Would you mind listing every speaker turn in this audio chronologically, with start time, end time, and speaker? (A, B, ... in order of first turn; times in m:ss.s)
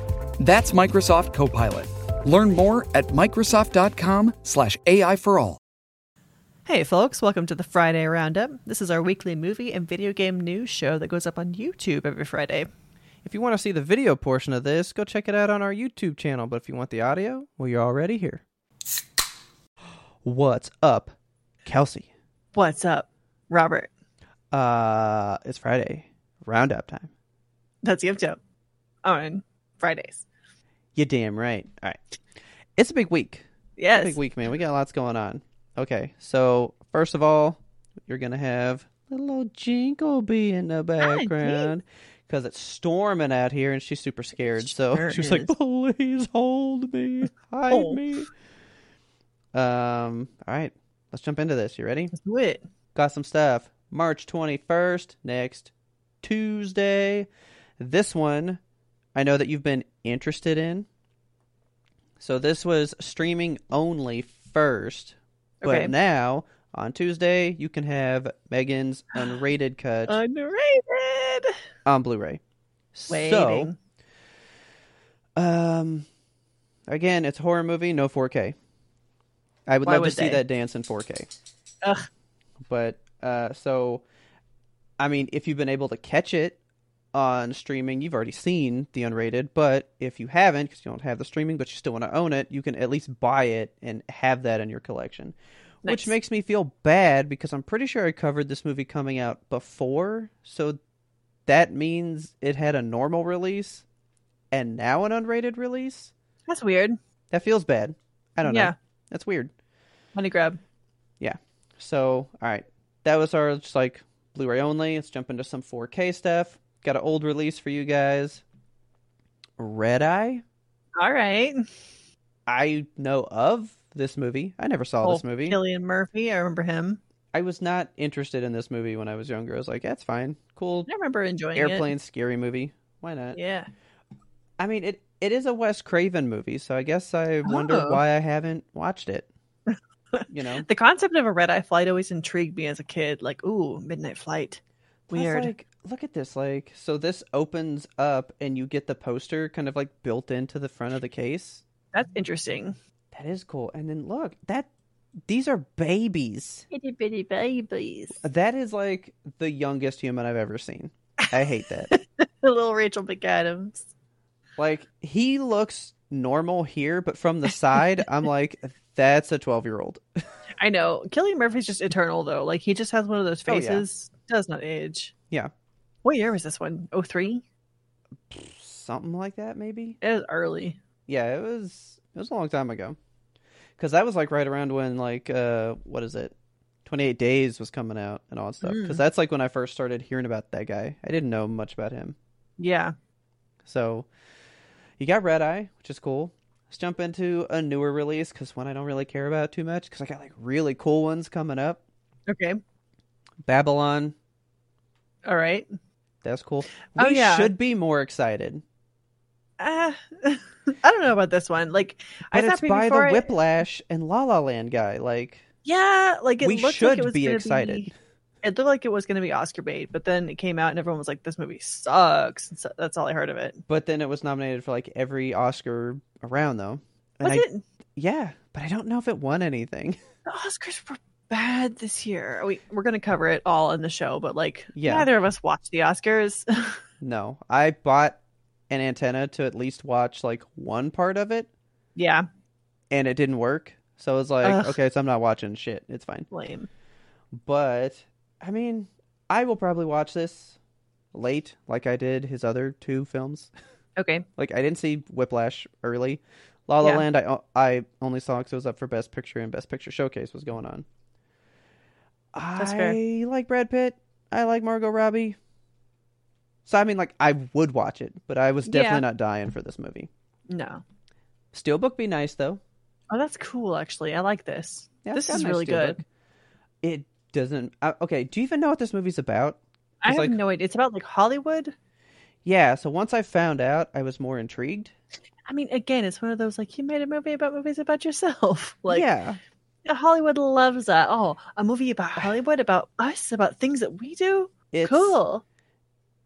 0:00.4-0:05.6 A
0:06.7-0:12.7 B
0:13.2-0:18.4 C
0:20.2-0:21.1 C
0:21.6-0:22.1 C
0:22.6-0:23.9 B
0:24.5-0:27.1 C
0:27.8-0:28.4 B
0:29.0-0:30.3 B
0:31.0-0:32.0 C
0:32.8-0:48.3 C
0:33.8-0:34.2 B
0:41.0-0:41.7 B
0:44.6-0:45.5 B
0:47.7-0:48.0 B
0:49.5-0:52.1 C
0:52.1-0:52.6 B
0:53.0-0:55.7 C
0:56.2-0:57.3 C
0:57.8-0:58.6 C
0:59.2-1:00.9 C
1:02.2-1:10.2 C
1:05.6-1:05.9 B
1:10.1-1:11.5 B
1:11.9-1:12.4 C
1:12.9-1:13.7 C
1:13.1-1:13.8 B
1:15.4-1:16.1 C
1:16.9-1:18.6 C
1:19.7-1:21.3 C
1:19.8-1:20.4 B
1:22.7-1:24.0 C
1:25.0-1:26.6 C
1:27.1-1:40.8 C
1:35.8-1:36.2 B
1:41.5-1:43.8 C
1:44.5-1:46.1 C
1:46.5-1:47.0 B
1:47.3-1:49.5 C
1:48.4-1:48.8 B
1:50.2-1:50.6 B
1:51.2-1:58.4 C
1:59.6-2:00.4 C
2:01.0-2:01.6 B
2:02.5-2:05.6 C
2:05.0-2:07.0 B
2:07.3-2:10.9 C
2:10.9-2:11.9 B
2:11.6-2:13.4 C
2:13.4-2:13.7 B
2:14.6-2:19.3 C
2:17.4-2:18.0 B
2:19.7-2:25.5 B
2:20.3-2:20.7 C
2:25.1-2:31.6 C
2:31.9-2:32.8 B
2:33.1-2:34.7 C
2:35.3-2:36.7 C
2:36.7-2:38.2 B
2:38.2-2:42.0 C
2:41.9-2:43.9 B
2:44.6-2:50.0 C
2:50.6-2:55.1 B
2:53.5-2:53.8 C
2:56.0-2:57.4 B
2:58.3-3:00.0 C
3:00.0-3:00.8 B
3:01.1-3:03.0 C
3:03.8-3:06.3 C
3:06.8-3:12.2 C
3:08.6-3:09.0 B
3:12.6-3:12.9 B
3:13.6-3:14.1 C
3:15.0-3:21.8 C
3:22.3-3:22.6 B
3:23.4-3:24.2 C
3:25.2-3:25.7 B
3:26.2-3:28.6 C
3:27.0-3:27.5 B
3:29.6-3:33.3 B
3:32.3-3:35.4 C
3:35.6-3:37.9 B
3:36.4-3:37.9 C
3:38.4-3:43.6 B
3:43.7-3:47.4 C
3:47.2-3:47.6 B
3:48.0-3:50.0 C
3:50.3-3:56.8 B
3:54.8-3:55.1 C
3:57.0-3:58.2 C
3:58.7-4:01.5 C
4:02.0-4:02.3 B
4:02.9-4:06.3 C
4:04.4-4:04.8 B
4:06.3-4:06.7 B
4:07.4-4:10.6 C
4:11.1-4:13.5 C
4:14.0-4:14.3 B
4:14.4-4:20.9 C
4:22.3-4:25.4 C
4:22.6-4:23.0 B
4:26.6-4:30.1 C
4:28.7-4:29.0 B
4:30.5-4:30.8 B
4:31.5-4:32.6 C
4:33.1-4:36.0 B
4:35.0-4:36.0 C
4:36.8-4:40.4 C
4:40.0-4:41.7 B
4:42.4-4:44.9 C
4:45.5-4:49.1 B
4:48.9-4:49.4 C
4:49.9-4:55.4 B
4:54.7-4:55.2 C